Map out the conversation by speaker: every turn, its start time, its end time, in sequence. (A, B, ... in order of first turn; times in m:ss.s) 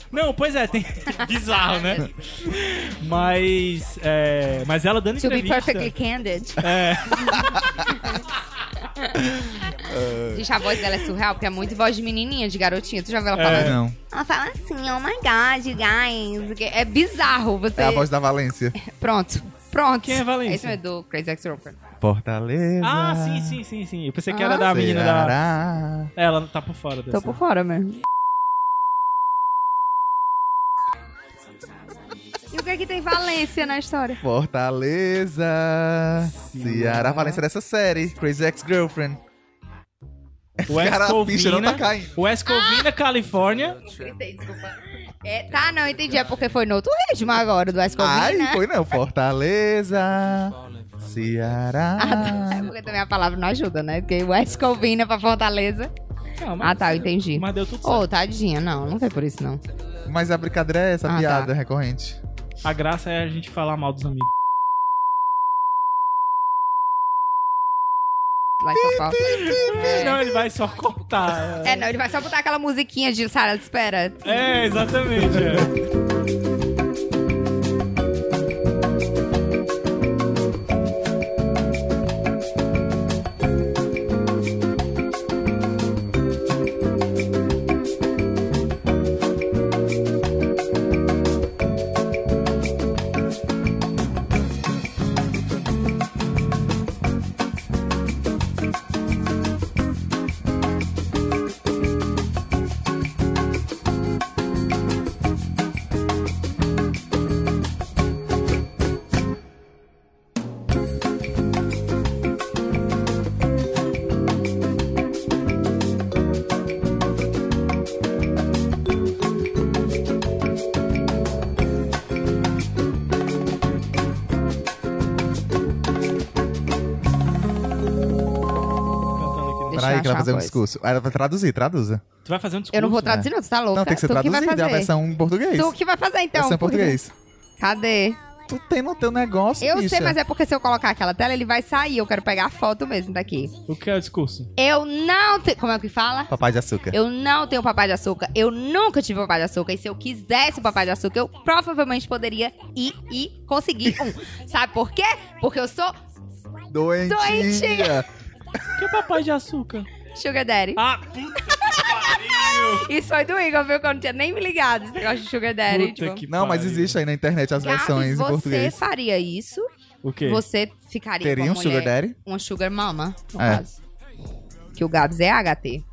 0:00.1-0:05.9 A
0:01.6-0:02.0 B
0:05.2-0:08.2 B
0:06.6-0:07.7 A
0:08.8-0:09.2 B
0:09.4-0:10.4 C
0:10.3-0:18.1 B
0:13.3-0:13.8 A
0:13.5-0:14.0 C
0:17.8-0:18.8 C
0:18.8-0:21.8 B
0:20.0-0:20.8 A
0:22.0-0:23.6 C
0:22.8-0:25.4 A
0:24.3-0:24.7 B
0:24.6-0:26.1 C
0:26.2-0:27.4 A
0:27.1-0:28.0 B
0:32.5-0:34.2 B
0:34.2-0:39.2 C
0:36.4-0:37.2 A
0:37.1-0:37.4 B
0:40.6-0:42.1 C
0:40.7-0:43.8 A
0:42.5-0:42.9 B
0:43.8-0:48.6 B
0:48.0-0:52.7 C
0:52.0-0:55.9 B
0:56.4-0:58.0 A
0:56.6-0:59.6 B
1:00.1-1:02.2 C
1:01.1-1:01.5 B
1:02.6-1:04.3 A
1:08.6-1:10.2 B
1:09.2-1:11.9 A
1:11.6-1:14.4 B
1:14.2-1:15.7 A
2:09.2-2:09.8 A
2:09.7-2:10.6 B
2:09.7-2:12.0 C
2:12.2-2:13.3 A
2:12.7-2:14.9 B
2:13.7-2:15.7 C
2:15.5-2:17.0 B
2:16.3-2:17.1 C
2:17.6-2:18.2 B
2:18.5-2:20.2 C
2:19.6-2:23.5 B
2:23.7-2:24.5 A
2:24.6-2:26.3 B
2:26.3-2:27.0 C
2:26.9-2:36.0 B
2:36.7-2:38.0 C
2:37.1-2:38.0 B
2:38.8-2:39.9 A
2:40.1-2:40.8 B
2:40.8-2:42.9 A
2:41.5-2:46.2 B
2:45.7-2:47.0 A
2:46.3-2:48.8 C
2:47.6-2:49.7 B
2:50.0-2:50.4 A
2:50.2-2:53.8 B
2:51.2-2:52.2 C
2:53.4-2:53.6 C
2:54.7-2:55.8 B